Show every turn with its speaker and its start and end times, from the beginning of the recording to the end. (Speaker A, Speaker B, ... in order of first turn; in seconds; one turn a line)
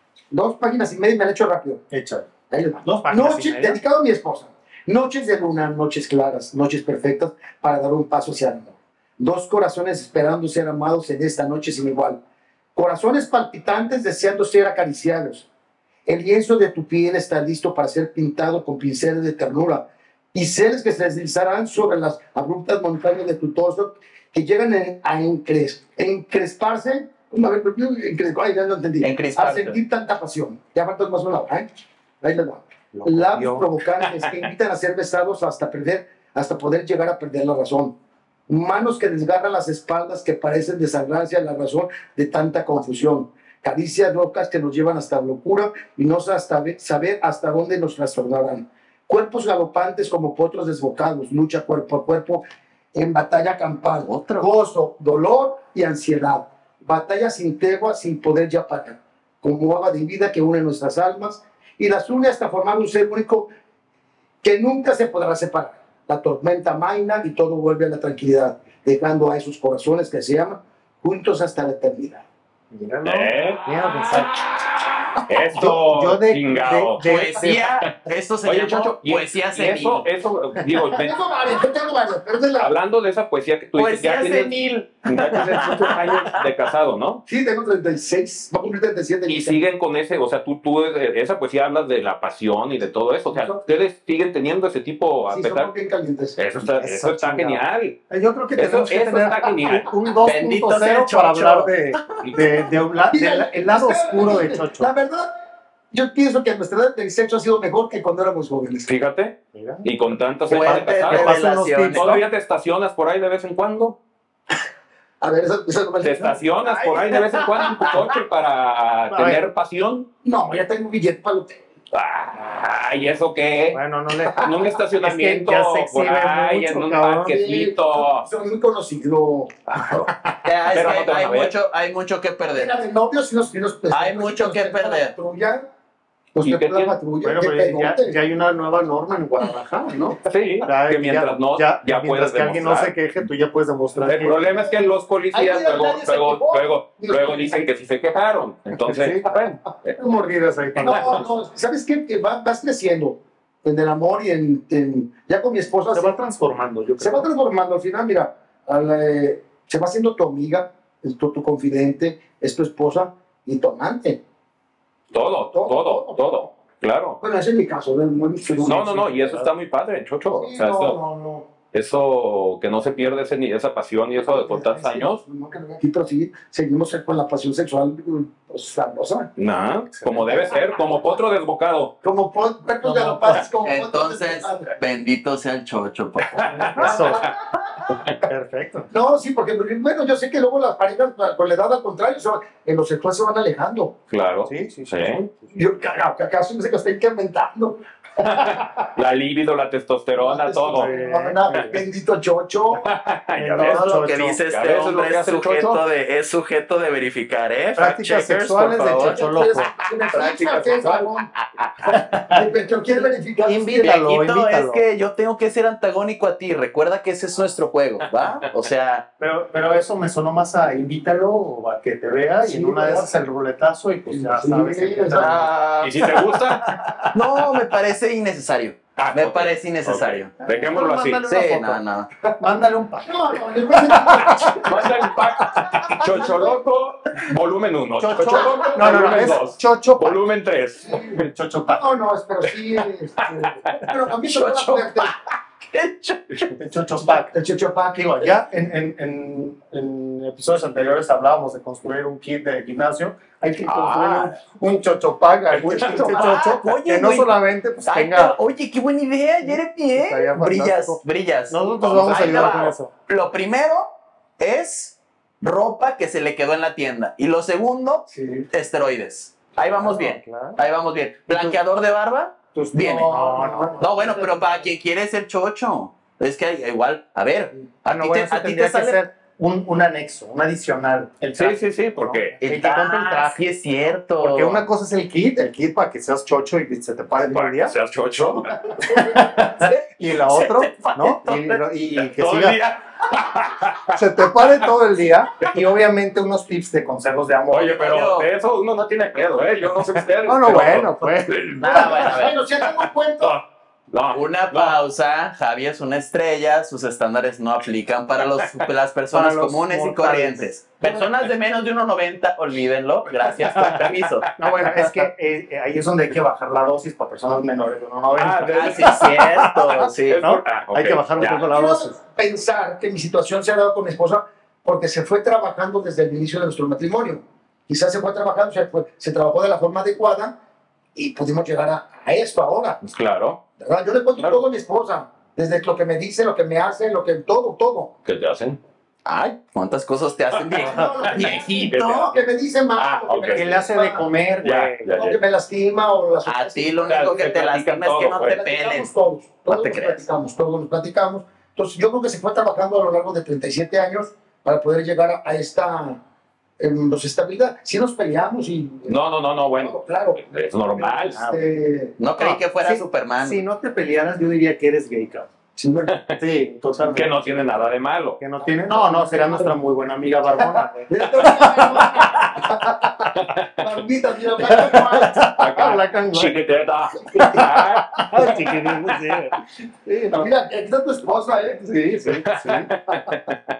Speaker A: 0.3-1.8
Speaker B: 1.9-2.3
Speaker A: 2.5-12.2
Speaker B: 2.8-3.8
Speaker A: 12.7-15.4
Speaker A: 16.1-31.7
Speaker C: 29.0-29.8
Speaker A: 32.2-37.9
Speaker B: 32.9-33.6
Speaker A: 38.5-63.5
Speaker C: 54.0-54.5
Speaker A: 64.4-72.2
Speaker B: 72.7-74.4
Speaker D: 73.0-74.3
Speaker D: 75.2-77.3
Speaker B: 75.5-77.7
Speaker C: 77.0-80.1
Speaker D: 78.4-81.2
Speaker A: 80.9-82.7
Speaker D: 82.6-87.2
Speaker C: 83.7-86.5
Speaker A: 87.2-89.6
Speaker D: 89.3-95.7
Speaker A: 93.3-93.6
Speaker A: 95.3-96.4
Speaker D: 96.3-98.0
Speaker B: 96.7-104.9
Speaker D: 98.6-100.0
Speaker C: 100.2-102.3
Speaker D: 102.2-102.5
Speaker A: 103.1-105.3
Speaker A: 105.9-108.9
Speaker D: 108.8-114.0
Speaker B: 109.5-109.9
Speaker C: 110.5-112.2
Speaker B: 110.5-112.2
Speaker A: 115.2-118.1
Speaker D: 116.0-120.1
Speaker B: 119.1-119.4
Speaker A: 120.2-121.6
Speaker D: 121.9-128.3
Speaker B: 123.7-127.4
Speaker A: 124.2-124.5
Speaker A: 127.3-129.5
Speaker D: 129.7-130.1
Speaker C: 130.4-132.7
Speaker D: 130.7-131.5
Speaker A: 132.5-135.6
Speaker C: 133.9-135.1
Speaker A: 136.3-138.2
Speaker D: 136.4-136.9
Speaker B: 137.2-144.4
Speaker A: 139.9-140.2
Speaker D: 140.2-142.9
Speaker D: 144.1-149.9
Speaker A: 144.4-144.7
Speaker A: 145.3-147.6
Speaker B: 148.8-151.3
Speaker D: 150.8-151.2
Speaker A: 150.8-156.2
Speaker B: 155.9-157.3
Speaker A: 157.0-164.2
Speaker D: 165.1-167.2
Speaker A: 165.5-166.5
Speaker A: 167.2-169.3
Speaker B: 168.6-169.5
Speaker D: 168.6-171.0
Speaker A: 170.3-171.5
Speaker D: 171.7-175.2
Speaker A: 174.2-179.3
Speaker D: 179.4-181.9
Speaker B: 179.9-180.3
Speaker A: 182.0-184.7
Speaker B: 182.8-183.4
Speaker C: 183.6-187.0
Speaker D: 186.3-187.3
Speaker B: 186.7-187.3
Speaker A: 186.8-187.6
Speaker B: 188.2-188.9
Speaker A: 188.9-193.9
Speaker D: 194.1-195.3
Speaker B: 194.5-195.2
Speaker A: 195.5-198.8
Speaker D: 198.2-200.9
Speaker A: 200.2-202.9
Speaker B: 200.7-201.8
Speaker D: 202.7-203.9
Speaker B: 203.3-204.4
Speaker C: 203.6-209.2
Speaker D: 204.5-205.8
Speaker B: 207.8-209.7
Speaker A: 208.8-211.3
Speaker D: 210.1-211.1
Speaker B: 211.9-212.4
Speaker A: 212.3-213.9
Speaker B: 213.4-214.9
Speaker C: 213.8-219.0
Speaker B: 219.2-225.5
Speaker A: 222.4-223.2
Speaker A: 224.1-225.5
Speaker C: 225.2-226.2
Speaker D: 225.8-227.2
Speaker C: 227.1-230.3
Speaker D: 229.0-231.2
Speaker B: 230.4-231.8
Speaker C: 231.2-232.1
Speaker B: 232.4-233.2
Speaker A: 233.0-236.6
Speaker B: 233.7-234.7
Speaker D: 234.6-241.3
Speaker B: 238.0-240.2
Speaker A: 238.2-239.4
Speaker B: 241.1-241.8
Speaker A: 241.7-245.1
Speaker D: 243.3-243.8
Speaker C: 244.2-246.5
Speaker B: 246.6-247.3
Speaker A: 247.1-248.4
Speaker B: 247.9-258.3
Speaker D: 253.7-254.3
Speaker D: 255.5-256.2
Speaker A: 255.6-256.3
Speaker C: 255.9-273.2
Speaker B: 259.5-262.9
Speaker D: 262.2-262.6
Speaker B: 268.2-268.4
Speaker B: 269.6-270.6
Speaker B: 271.3-271.6
Speaker B: 272.5-273.9
Speaker A: 273.0-274.4
Speaker C: 273.8-279.0
Speaker B: 277.9-283.5
Speaker D: 281.3-282.4
Speaker C: 282.4-284.6
Speaker B: 284.2-287.7
Speaker D: 287.2-288.7
Speaker A: 288.4-289.3
Speaker B: 288.9-292.6
Speaker C: 289.6-291.7
Speaker D: 292.0-294.0
Speaker B: 293.9-297.8
Speaker D: 297.5-303.4
Speaker C: 297.8-298.3
Speaker B: 300.2-301.4
Speaker C: 301.5-302.4
Speaker A: 301.6-303.4
Speaker D: 303.9-304.8
Speaker C: 304.1-314.3
Speaker B: 309.1-310.5
Speaker D: 313.2-314.3
Speaker B: 314.4-322.0
Speaker D: 318.1-319.2
Speaker C: 318.5-320.2
Speaker D: 320.0-321.4
Speaker A: 321.2-330.4
Speaker A: 330.9-332.8
Speaker D: 332.8-333.4
Speaker A: 333.6-337.9
Speaker D: 338.0-338.6
Speaker C: 339.0-342.1
Speaker D: 340.5-342.1
Speaker A: 340.5-344.1
Speaker D: 342.8-343.5
Speaker B: 343.3-344.9
Speaker D: 344.4-345.2
Speaker A: 344.9-347.1
Speaker C: 346.2-348.9
Speaker D: 346.9-348.4
Speaker A: 348.2-356.0
Speaker C: 349.5-350.1
Speaker A: 356.6-359.0
Speaker D: 358.9-361.2
Speaker A: 359.5-361.9
Speaker C: 362.0-363.4
Speaker B: 362.1-365.3
Speaker A: 365.6-365.9
Speaker D: 365.9-366.2
Speaker B: 366.2-367.3
Speaker D: 366.8-368.2
Speaker B: 368.2-371.8
Speaker A: 368.5-369.5
Speaker A: 370.4-375.3
Speaker D: 373.1-373.7
Speaker B: 374.5-376.4
Speaker D: 375.2-379.0
Speaker B: 377.2-380.3
Speaker A: 380.1-381.6
Speaker B: 381.6-382.7
Speaker D: 382.1-383.4